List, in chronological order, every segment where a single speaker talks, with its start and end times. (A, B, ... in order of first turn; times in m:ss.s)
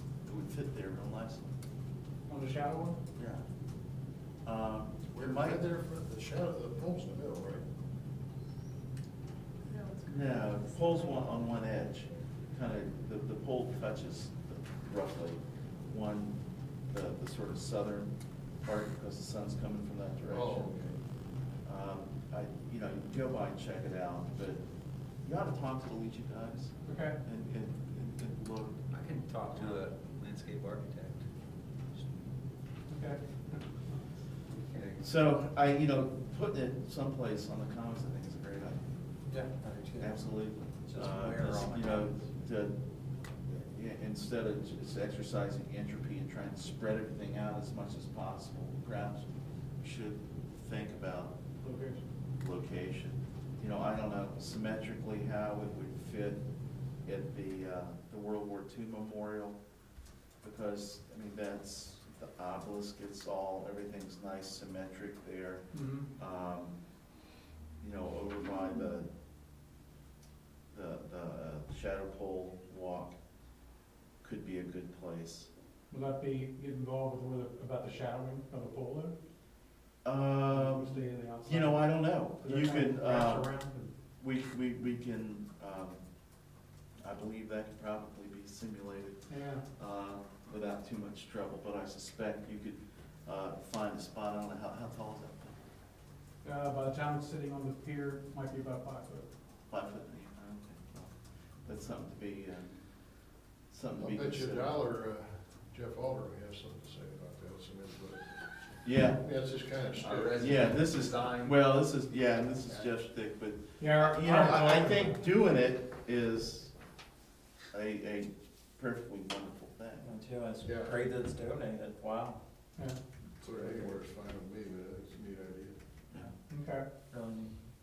0:00.2-0:01.6 A
0:02.3-0:03.0 B
0:03.2-0:03.4 A
0:04.4-0:05.6 A
0:05.1-0:07.6 C
0:10.0-0:20.7 A
0:20.3-0:21.0 C
0:21.6-0:24.6 A
0:25.2-0:28.8 A
0:26.8-0:27.2 B
0:28.9-0:31.2 D
0:32.9-0:34.0 B
0:34.7-0:35.0 D
0:35.0-0:38.9 A
0:39.3-0:40.2 E
0:40.0-0:42.8 A
0:40.8-0:42.1 E
0:43.5-0:51.4 A
0:51.6-0:52.0 B
0:52.4-0:56.4 A
0:57.0-0:59.6 A
1:00.4-1:06.8 A
1:05.7-1:06.1 B
1:07.8-1:09.1 A
1:10.7-1:13.2 A
1:14.2-1:15.5 A
1:15.9-1:19.2 B
1:20.0-1:23.5 A
1:20.5-1:23.9 B
1:24.2-1:26.0 A
1:27.0-1:35.6 A
1:29.3-1:29.6 B
1:36.4-1:39.3 B
1:39.7-1:44.7 A
1:44.0-1:48.5 C
1:48.8-1:49.2 A
1:49.1-1:50.7 C
1:50.0-1:51.6 D
1:50.4-1:56.7 A
1:53.8-1:55.2 B
1:57.7-2:00.1 A
2:00.0-2:02.4 E
2:00.6-2:01.0 C
2:02.8-2:03.0 B
2:03.4-2:05.8 C
2:06.5-2:07.0 B
2:07.1-2:07.6 E